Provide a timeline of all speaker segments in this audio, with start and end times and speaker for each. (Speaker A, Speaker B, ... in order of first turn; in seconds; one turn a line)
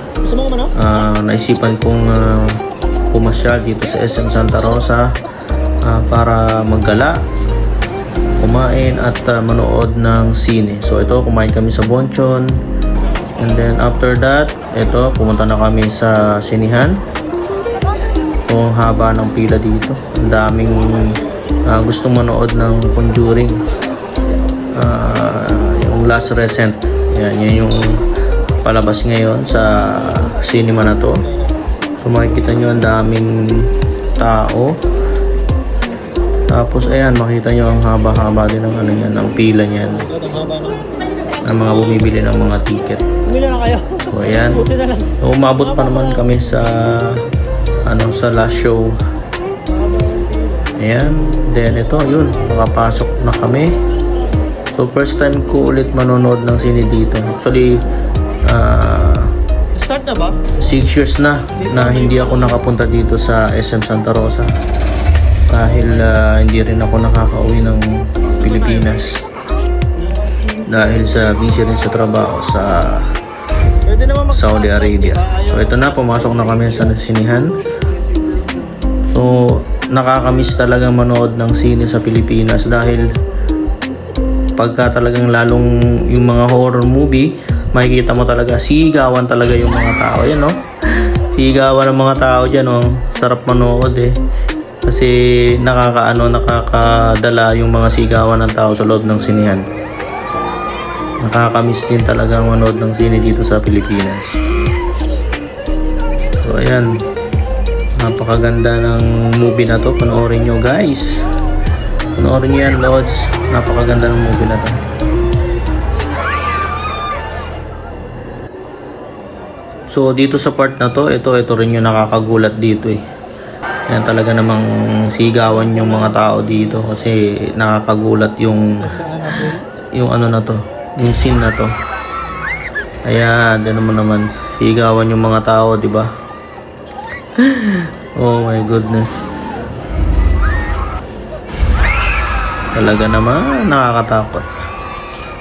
Speaker A: 0.2-0.7
Speaker B: 0.8-2.6
Speaker B: 3.1-5.1
Speaker B: 5.8-7.2
Speaker B: 8.4-12.6
Speaker B: 13.4-17.0
Speaker B: 18.5-23.6
Speaker B: 24.8-28.0
Speaker B: 28.6-31.3
Speaker B: 32.0-34.8
Speaker B: 36.5-40.1
Speaker A: 40.0-41.0
Speaker B: 41.4-43.1
Speaker A: 43.2-46.2
Speaker B: 44.1-44.7
Speaker B: 45.2-47.2
Speaker B: 47.9-49.0
Speaker A: 49.7-50.7
Speaker B: 50.8-53.8
Speaker B: 54.7-57.8
Speaker B: 58.4-59.3
Speaker A: 59.8-60.4
Speaker B: 60.6-64.5
Speaker A: 61.6-62.7
Speaker B: 65.5-69.2
Speaker A: 70.0-70.6
Speaker B: 70.7-73.2
Speaker A: 73.9-76.9
Speaker B: 74.3-77.6
Speaker B: 79.1-83.1
Speaker B: 84.6-90.6
Speaker B: 91.2-94.2
Speaker B: 94.8-99.7
Speaker B: 101.2-104.4
Speaker B: 106.4-107.0
Speaker B: 108.0-111.2
Speaker B: 112.2-114.8
Speaker B: 119.9-123.0
Speaker B: 123.9-131.7
Speaker A: 128.8-129.7
Speaker B: 133.1-136.1
Speaker B: 137.4-139.3
Speaker B: 142.7-144.5